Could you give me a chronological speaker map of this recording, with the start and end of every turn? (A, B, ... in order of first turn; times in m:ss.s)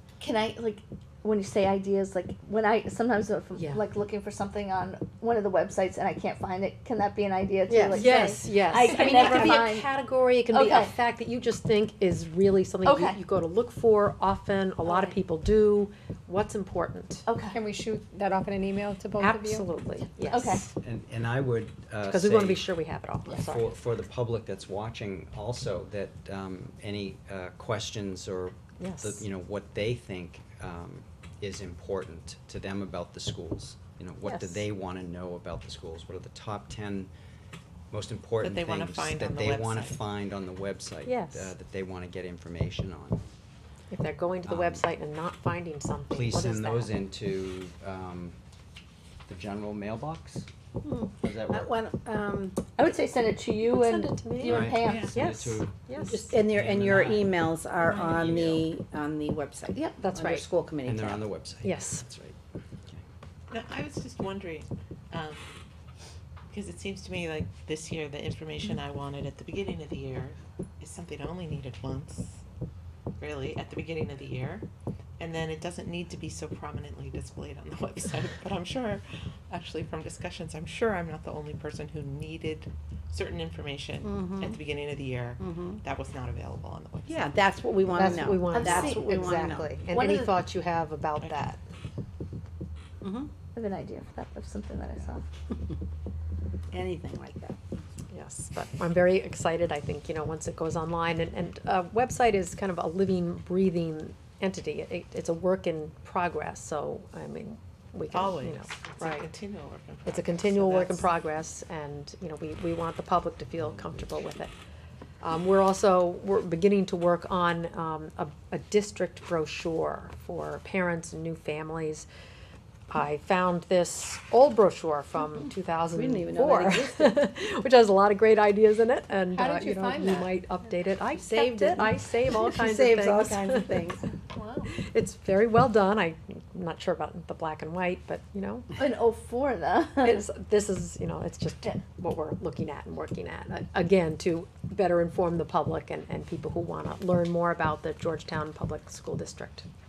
0:00.2-0:09.9 A
0:03.6-0:03.8 B
0:07.7-0:08.0 C
0:07.9-0:17.2 B
0:10.5-0:10.9 A
0:12.8-0:13.2 A
0:14.8-0:15.2 A
0:17.3-0:17.6 A
0:17.5-0:19.7 D
0:19.2-0:20.7 B
0:20.2-0:20.6 A
0:20.8-0:22.8 E
0:22.0-0:23.8 B
0:23.3-0:37.1 E
0:28.8-0:29.2 B
0:34.2-0:34.6 B
0:37.9-0:43.2 E
0:38.4-0:40.1 F
0:41.0-0:41.5 B
0:43.9-0:46.9 B
0:44.4-0:44.8 E
0:46.1-0:48.4 E
0:49.3-0:50.5 E
0:50.8-0:52.6 C
0:51.2-0:51.7 E
0:52.8-0:55.2 A
0:53.7-0:56.2 B
0:54.4-0:57.3 E
0:54.6-0:55.1 F
0:56.1-1:01.2 C
0:56.8-0:57.2 F
0:57.8-0:58.7 E
0:59.7-1:00.0 A
1:00.0-1:00.4 B
1:00.8-1:02.4 E
1:01.6-1:02.0 B
1:03.5-1:05.4 F
1:06.5-1:12.4 F
1:13.2-1:14.6 F
1:15.2-1:27.4 F
1:24.0-1:24.6 C
1:25.4-1:25.8 C
1:27.1-1:29.7 C
1:27.9-1:31.6 B
1:28.5-1:29.2 A
1:29.9-1:30.3 A
1:31.2-1:31.5 F
1:33.0-1:33.3 C
1:33.5-1:35.2 A
1:36.7-1:37.6 C
1:38.1-1:49.3 B
1:48.1-1:51.1 F
1:50.0-1:54.5 B
1:55.2-2:02.0 B
2:02.9-2:13.9 B
2:05.9-2:07.2 C
2:09.3-2:10.3 D
2:11.1-2:14.0 C
2:14.3-2:14.7 D
2:14.7-2:18.7 B
2:18.8-2:20.2 A
2:20.0-2:29.6 B